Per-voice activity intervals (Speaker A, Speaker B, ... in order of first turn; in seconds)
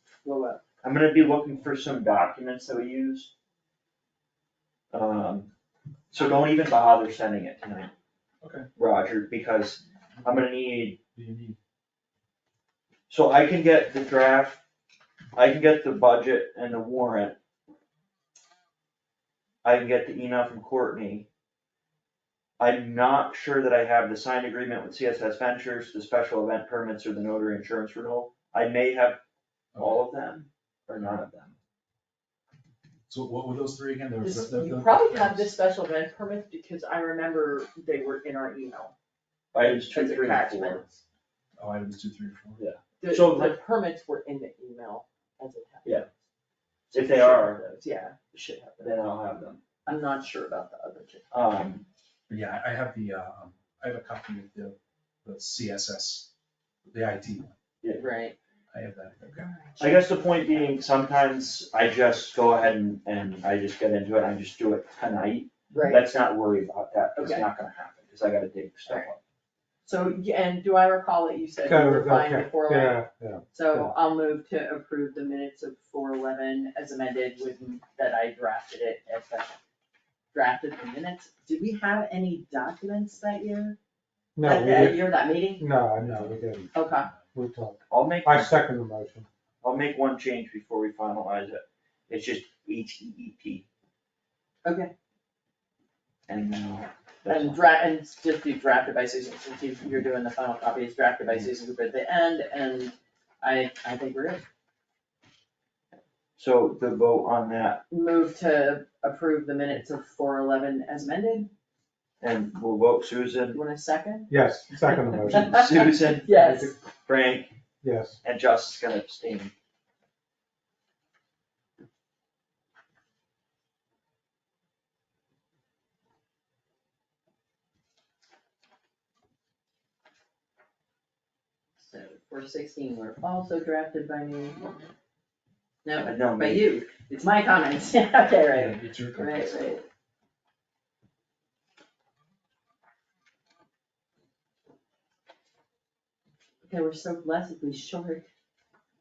Speaker A: 0.2-0.6, 34.2-38.9, 39.6-41.0, 43.0-46.1, 46.9-49.0, 49.9-51.3, 58.0-58.4, 59.2-60.1, 65.7-66.0, 67.2-67.5, 69.9-79.6, 80.3-83.8, 84.4-85.7, 86.7-87.1, 94.7-94.9, 97.3-104.5, 107.9-111.5, 113.5-116.8, 131.8-134.7, 135.8-139.8, 146.6-148.3
Speaker B: 0.8-3.3, 4.9-5.5, 6.1-7.9, 8.8-11.0, 13.1-14.6, 15.3-17.4, 19.6-21.3, 22.6-29.2, 29.8-31.5, 39.5-40.8, 42.6-43.6, 46.9-47.6, 48.8-49.6, 51.3-51.9, 59.8-69.2, 87.9-88.6, 89.6-93.7, 96.3-97.6, 106.4-107.8, 112.2-113.6, 115.3-116.4, 117.0-117.5, 118.2-119.5, 136.0-136.7
Speaker C: 8.4-8.7, 11.2-11.6, 29.7-30.0, 33.1-35.5, 41.6-42.6, 52.3-56.3, 56.9-57.5, 58.7-59.5, 86.0-87.3, 138.5-139.5
Speaker D: 71.7-73.9, 84.4-85.0, 85.6-86.7, 87.3-89.3, 114.3-115.5, 116.4-116.7, 117.8-118.2